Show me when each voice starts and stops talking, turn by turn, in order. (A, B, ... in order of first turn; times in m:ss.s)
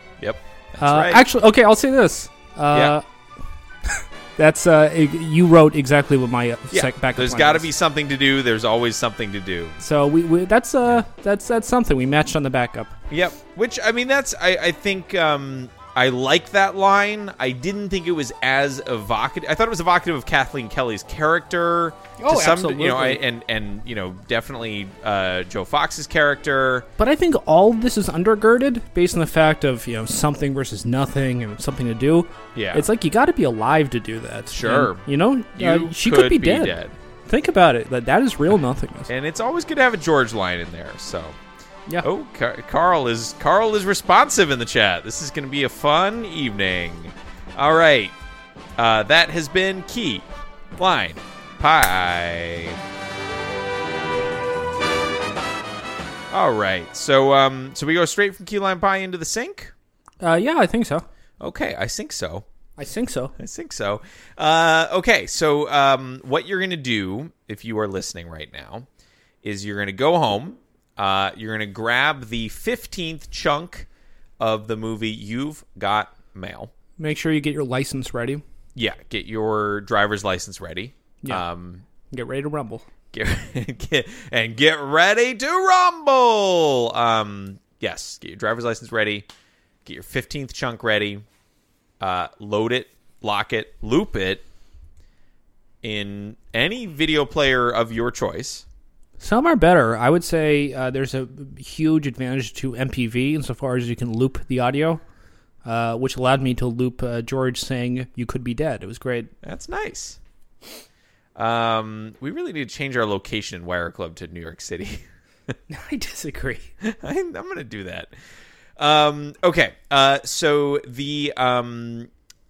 0:00.2-0:01.2 A
0:00.8-0:03.0 B
0:04.0-0:07.7 B
0:06.7-0:09.8 A
0:09.8-0:12.9 B
0:13.1-0:26.9 A
0:22.2-0:23.2 B
0:27.0-0:39.1 B
0:32.5-0:32.8 A
0:34.5-0:36.9 A
0:39.1-0:41.4 A
0:42.0-0:48.1 A
0:48.8-0:50.2 A
0:50.8-0:52.8 A
0:56.3-0:59.7 A
1:00.2-1:01.1 B
1:01.4-1:02.4 A
1:02.8-1:03.3 B
1:03.4-1:08.8 A
1:09.4-1:13.8 A
1:14.4-1:16.7 A
1:17.0-1:18.4 B
1:18.7-1:21.8 A
1:22.1-1:22.8 B
1:23.1-1:29.2 A
1:29.8-1:31.2 A
1:32.0-1:34.4 A
1:35.8-1:38.6 A
1:39.2-1:45.0 B
1:45.6-1:49.3 B
1:49.4-1:50.2 A
1:51.4-1:55.0 A
1:55.7-1:56.7 B
1:56.8-1:58.1 A
1:58.8-2:02.1 A